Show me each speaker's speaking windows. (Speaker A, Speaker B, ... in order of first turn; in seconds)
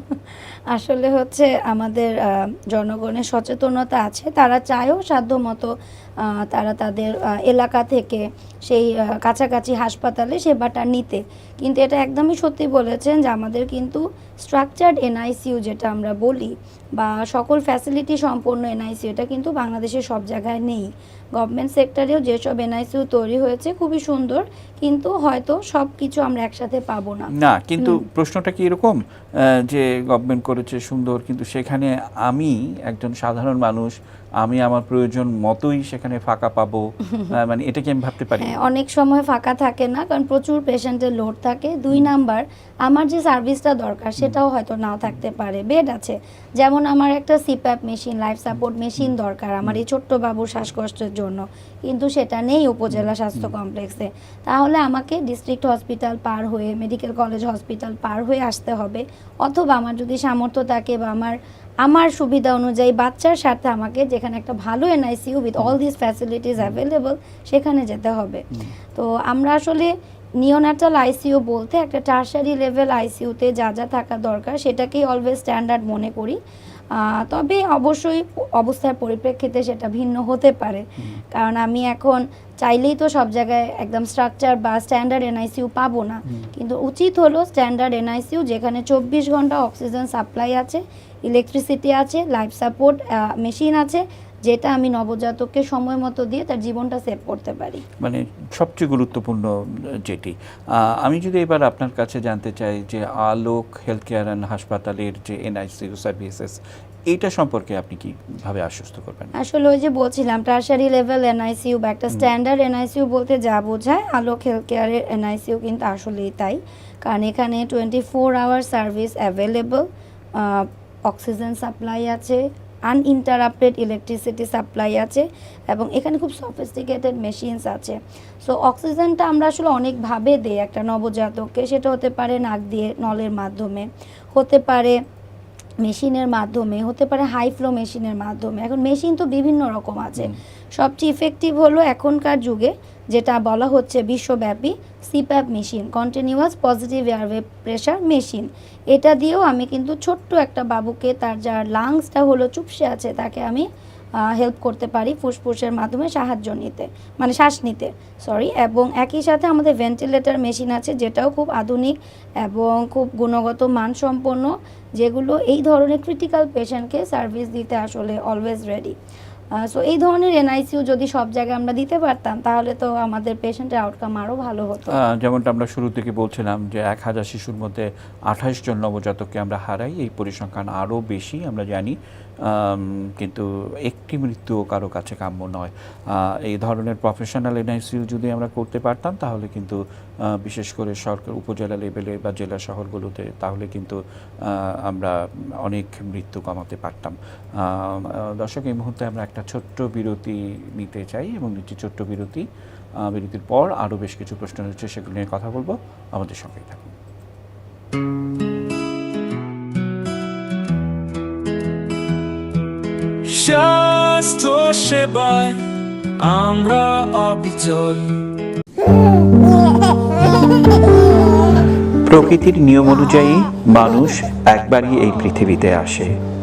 Speaker A: 0.3-28.0, 38.4-76.4, 76.9-97.8, 109.3-134.9, 135.8-153.7, 154.2-168.9, 169.6-174.9
Speaker B: 27.3-38.6, 52.9-53.5, 98.0-109.3, 174.9-202.5, 203.0-206.9, 222.0-226.1
Speaker C: 213.2-215.6, 216.2-218.1